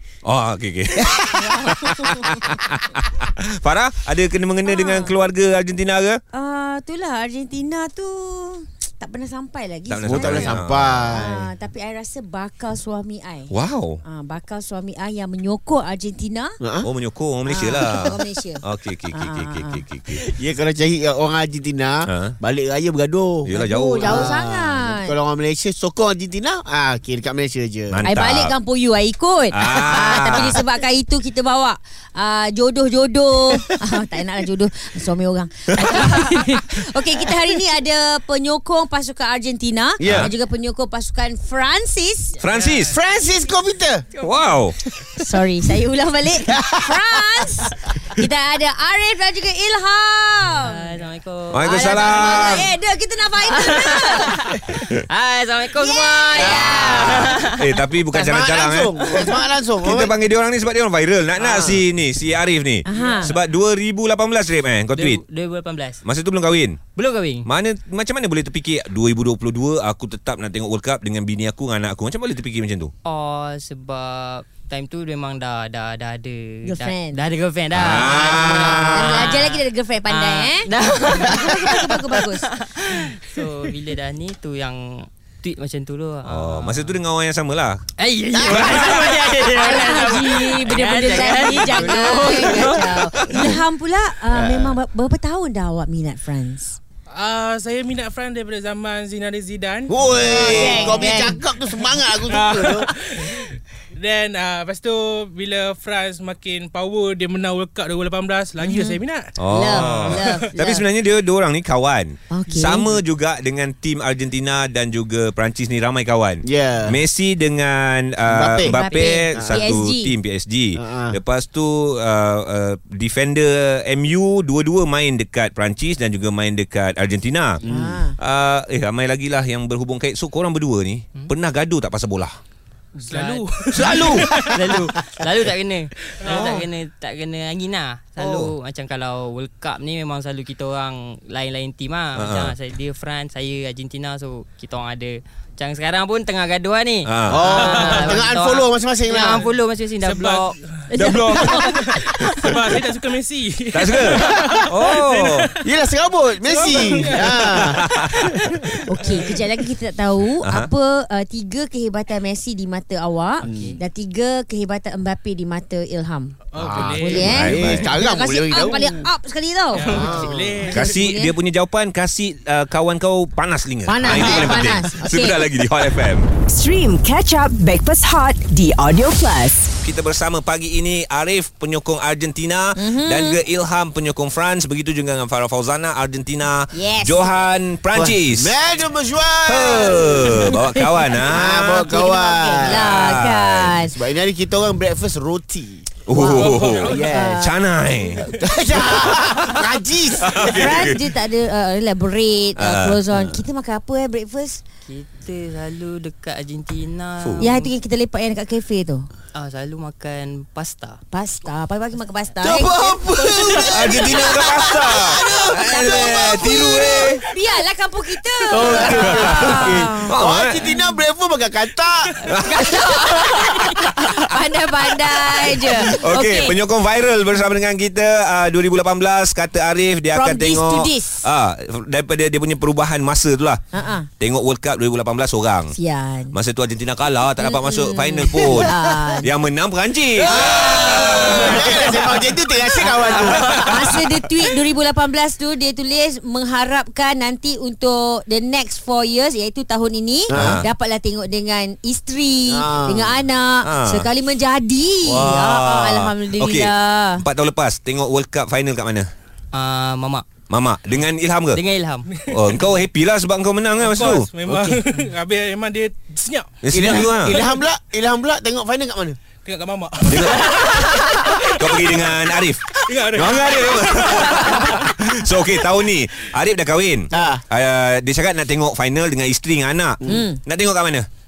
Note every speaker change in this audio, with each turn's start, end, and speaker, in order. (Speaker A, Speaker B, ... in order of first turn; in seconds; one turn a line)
Speaker A: 0.2-6.2
Speaker B: 1.4-2.3
Speaker B: 4.6-5.1
Speaker B: 6.3-10.6
Speaker A: 9.9-11.2
Speaker C: 10.0-11.5
Speaker B: 11.1-13.5
Speaker A: 13.5-14.0
Speaker B: 14.0-16.6
Speaker C: 16.6-16.9
Speaker A: 16.8-20.2
Speaker B: 17.5-19.8
Speaker C: 20.1-28.0
Speaker A: 22.1-22.4
Speaker A: 23.4-24.3
Speaker B: 23.5-25.1
Speaker A: 27.9-28.5
Speaker B: 28.0-42.3
Speaker A: 29.5-30.6
Speaker A: 35.7-36.1
Speaker C: 40.0-40.3
Speaker A: 40.0-40.3
Speaker A: 42.4-43.0
Speaker D: 42.5-42.9
Speaker C: 42.9-44.1
Speaker A: 44.2-44.8
Speaker B: 45.2-50.9
Speaker C: 46.5-47.0
Speaker D: 50.6-52.6
Speaker A: 51.5-52.7
Speaker B: 51.6-54.5
Speaker D: 53.4-57.8
Speaker B: 55.8-57.2
Speaker C: 56.4-57.3
Speaker A: 56.7-59.0
Speaker C: 58.1-60.1
Speaker A: 59.8-65.2
Speaker D: 61.4-61.8
Speaker B: 62.8-63.3
Speaker D: 62.9-63.2
Speaker D: 64.9-66.0
Speaker A: 66.0-66.8
Speaker D: 67.0-67.5
Speaker A: 67.4-72.9
Speaker D: 73.0-87.0
Speaker B: 76.6-77.2
Speaker A: 77.7-79.3
Speaker B: 78.3-82.5
Speaker A: 86.2-87.8
Speaker D: 88.0-93.1
Speaker C: 88.3-89.0
Speaker A: 88.5-89.5
Speaker B: 89.5-96.8
Speaker A: 91.9-93.4
Speaker C: 94.3-94.8
Speaker E: 97.1-101.2
Speaker C: 99.9-102.9
Speaker B: 100.2-101.4
Speaker D: 100.4-100.9
Speaker E: 101.8-110.5
Speaker B: 108.6-110.8
Speaker A: 109.4-127.6
Speaker B: 112.3-112.9
Speaker C: 116.4-117.0
Speaker C: 118.2-118.8
Speaker B: 118.7-120.1
Speaker D: 118.9-119.2
Speaker C: 119.3-119.6
Speaker C: 120.8-121.2
Speaker C: 127.6-128.0
Speaker B: 127.7-128.2
Speaker A: 128.2-132.4
Speaker D: 133.0-151.6
Speaker E: 133.0-134.6
Speaker A: 133.7-134.3
Speaker E: 136.2-136.5
Speaker A: 136.3-136.6
Speaker A: 138.2-138.5
Speaker A: 142.2-142.5
Speaker A: 147.1-147.5
Speaker C: 147.3-149.4
Speaker E: 147.6-148.2
Speaker E: 150.0-150.6
Speaker A: 150.9-151.8
Speaker B: 151.0-151.7
Speaker E: 151.2-155.6
Speaker A: 153.7-155.5
Speaker C: 154.2-154.6
Speaker C: 155.6-157.8
Speaker E: 156.4-159.4
Speaker A: 157.3-158.3
Speaker B: 158.8-166.3
Speaker A: 160.4-160.7
Speaker C: 163.4-163.8
Speaker E: 166.5-167.3
Speaker C: 166.6-169.1
Speaker A: 166.7-167.9
Speaker B: 167.0-170.0
Speaker E: 169.7-170.9
Speaker C: 169.8-170.7
Speaker B: 170.7-171.3
Speaker A: 170.7-176.3
Speaker B: 173.9-175.5
Speaker F: 176.5-179.7
Speaker A: 179.8-188.6
Speaker B: 182.8-183.4
Speaker B: 186.7-187.3
Speaker C: 187.9-190.6
Speaker A: 189.4-191.9
Speaker C: 191.2-193.0
Speaker B: 191.7-193.9
Speaker A: 192.7-193.7
Speaker C: 193.8-195.9
Speaker A: 196.1-199.6
Speaker B: 196.2-197.5
Speaker E: 196.2-197.0
Speaker C: 196.8-197.4
Speaker C: 198.3-200.9
Speaker A: 200.2-201.0
Speaker B: 200.4-204.6
Speaker A: 202.6-203.0
Speaker D: 204.9-207.7
Speaker A: 207.2-207.4
Speaker B: 207.4-209.1
Speaker D: 209.3-211.0
Speaker B: 211.1-220.1
Speaker C: 212.4-217.2
Speaker A: 212.4-217.2
Speaker A: 218.5-220.6
Speaker C: 218.5-222.1
Speaker A: 222.2-224.2
Speaker B: 222.4-226.6
Speaker A: 225.1-233.6
Speaker B: 230.1-231.2
Speaker B: 233.7-234.1
Speaker A: 234.2-235.7
Speaker B: 235.7-236.3
Speaker A: 236.3-242.0
Speaker B: 237.4-239.3
Speaker B: 240.3-242.0
Speaker C: 240.5-244.0
Speaker B: 242.7-257.2
Speaker A: 242.8-244.0
Speaker C: 250.3-250.6
Speaker A: 250.3-250.6
Speaker C: 252.5-253.2
Speaker A: 253.6-254.1
Speaker A: 255.0-259.1
Speaker D: 259.5-260.2
Speaker A: 260.5-261.6
Speaker D: 261.5-262.1
Speaker E: 262.1-262.5
Speaker A: 262.3-264.3
Speaker E: 263.8-267.7
Speaker C: 264.5-264.8
Speaker A: 266.6-267.4
Speaker C: 266.7-269.2
Speaker E: 269.4-272.0
Speaker A: 270.1-281.1
Speaker E: 272.9-274.9
Speaker C: 277.1-277.4
Speaker B: 280.0-280.4